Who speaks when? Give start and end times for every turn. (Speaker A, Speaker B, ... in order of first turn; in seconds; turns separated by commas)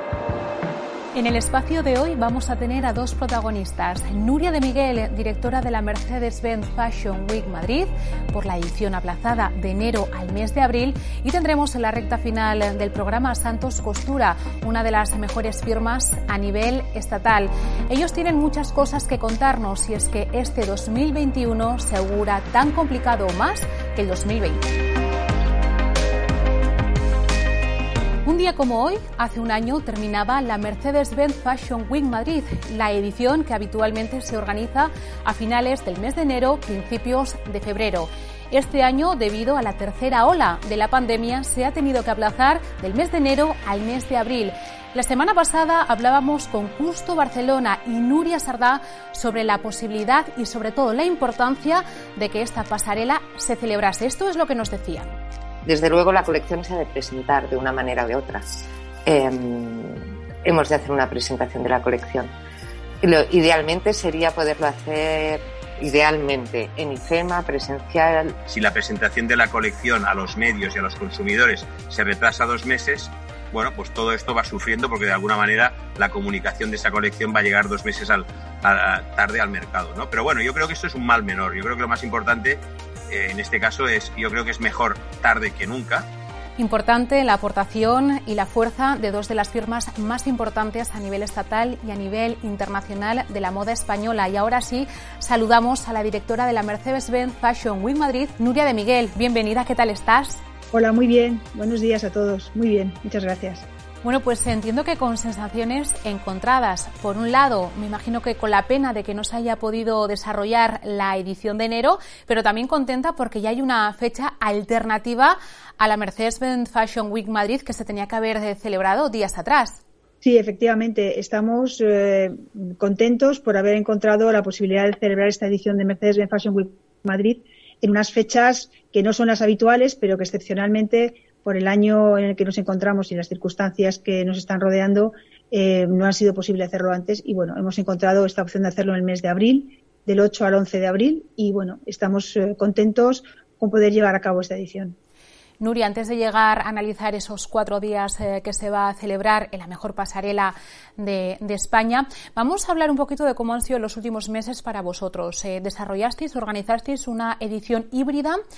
Speaker A: 1.1-24.7, Speaker A: 28.2-55.1, Speaker B: 55.6-62.3, Speaker B: 63.0-68.4, Speaker C: 68.5-86.1, Speaker A: 86.6-100.4, Speaker D: 100.7-103.7, Speaker A: 104.0-119.8, Speaker D: 120.2-144.9, Speaker A: 145.6-158.4